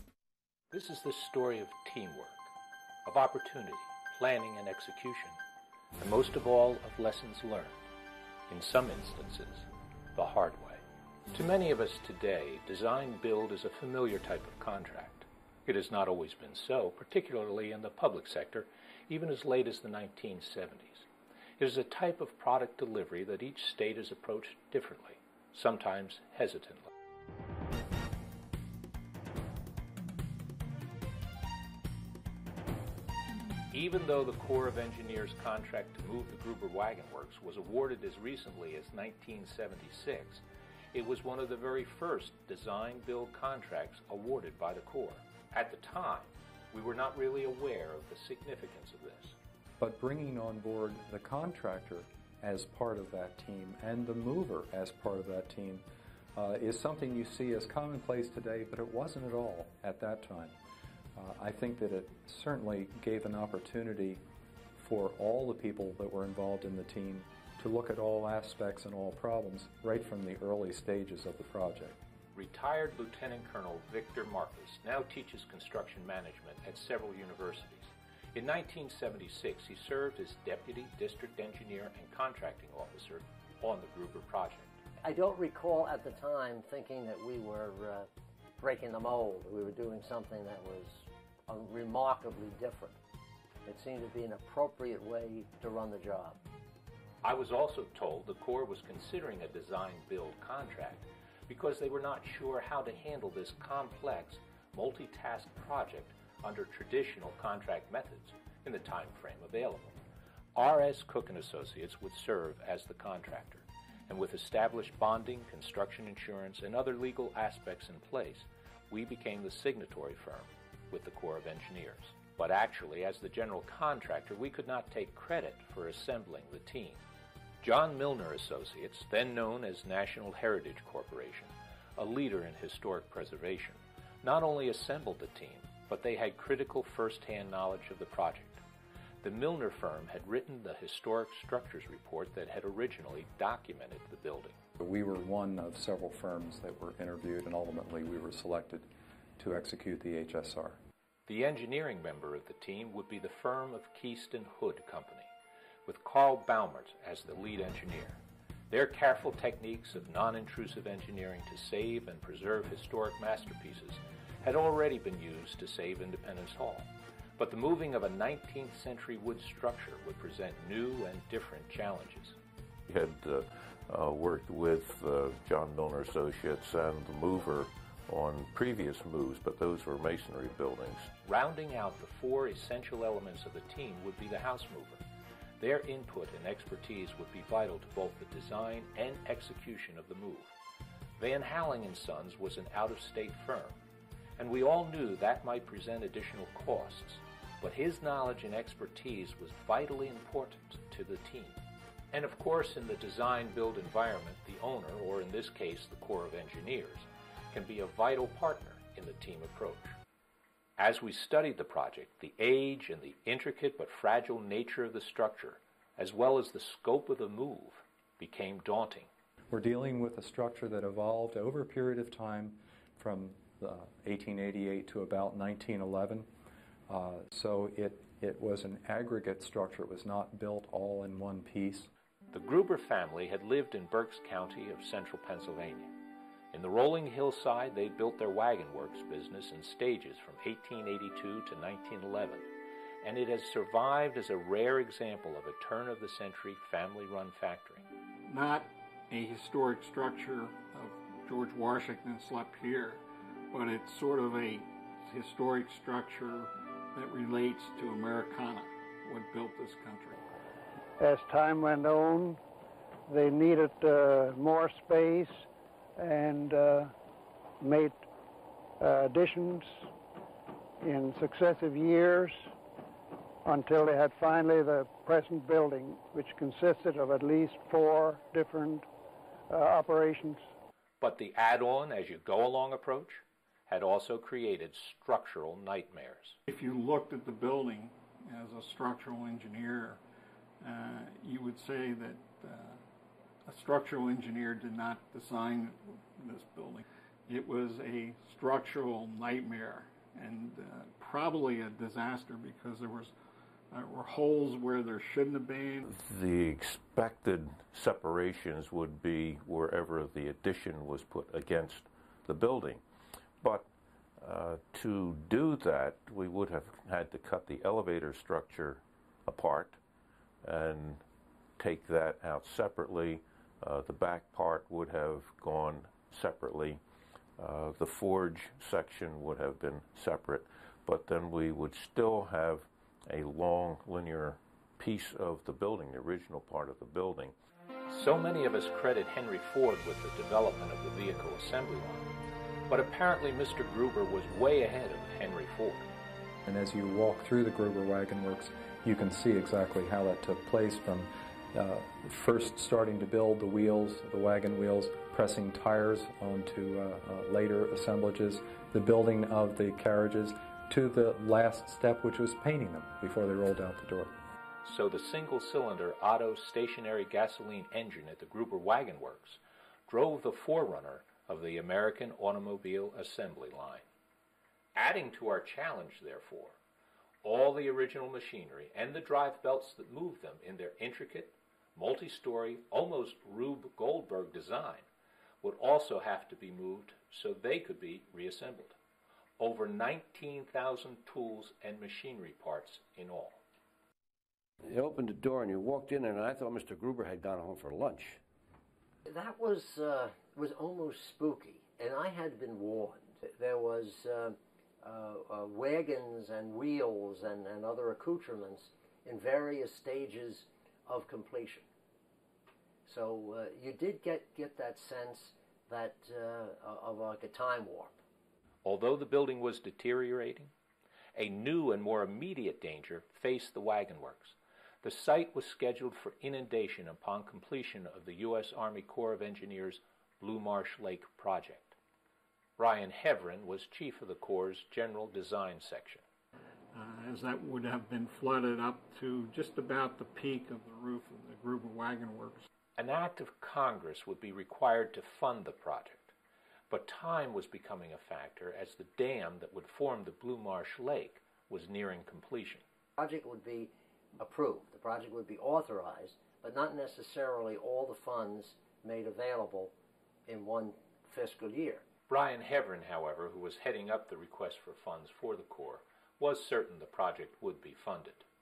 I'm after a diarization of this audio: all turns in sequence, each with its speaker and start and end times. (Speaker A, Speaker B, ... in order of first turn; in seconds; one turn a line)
Speaker A: 0.7-2.5
Speaker A: 3.0-5.4
Speaker A: 6.0-7.8
Speaker A: 8.5-10.8
Speaker A: 11.3-21.1
Speaker A: 21.6-26.9
Speaker A: 33.7-49.4
Speaker B: 49.8-60.6
Speaker B: 61.2-64.2
Speaker B: 64.8-72.0
Speaker A: 72.3-84.7
Speaker C: 85.0-88.1
Speaker C: 88.6-93.0
Speaker C: 93.7-96.4
Speaker A: 97.2-110.0
Speaker A: 110.5-127.0
Speaker A: 127.6-138.6
Speaker A: 139.2-144.6
Speaker B: 144.8-150.8
Speaker A: 151.3-155.3
Speaker A: 155.9-172.4
Speaker D: 172.9-181.1
Speaker A: 181.2-185.0
Speaker A: 185.6-190.5
Speaker A: 191.2-193.8
Speaker A: 194.4-201.6
Speaker A: 202.1-210.0
Speaker A: 210.8-219.1
Speaker B: 219.5-226.3
Speaker B: 226.9-231.9
Speaker A: 232.3-236.0
Speaker A: 236.5-242.5
Speaker A: 243.0-247.9
Speaker E: 248.3-260.2
Speaker F: 261.0-262.4
Speaker F: 263.1-265.5
Speaker F: 266.0-266.9
Speaker F: 267.6-268.0
Speaker F: 268.8-269.8
Speaker F: 270.8-272.5
Speaker F: 273.5-278.9
Speaker F: 279.5-280.4
Speaker A: 281.0-286.4
Speaker E: 286.5-290.0
Speaker E: 290.6-292.8
Speaker E: 293.4-303.1
Speaker E: 303.7-305.9
Speaker D: 305.9-312.8
Speaker D: 313.4-313.7
Speaker D: 314.2-319.8
Speaker D: 320.4-321.0
Speaker D: 321.6-326.8
Speaker D: 327.4-337.3
Speaker A: 337.9-342.1
Speaker A: 342.7-345.9
Speaker B: 346.5-364.1
Speaker A: 364.6-373.9
Speaker A: 374.8-376.6
Speaker A: 377.2-384.9
Speaker A: 385.4-388.8
Speaker A: 389.4-393.4
Speaker G: 394.7-398.2
Speaker C: 399.1-411.7
Speaker C: 412.9-417.9
Speaker A: 418.6-420.5
Speaker A: 421.1-431.8
Speaker A: 432.6-436.0
Speaker E: 436.7-442.5
Speaker A: 442.8-446.1
Speaker A: 446.7-452.6
Speaker C: 453.0-459.7
Speaker C: 460.3-461.8
Speaker A: 462.1-468.2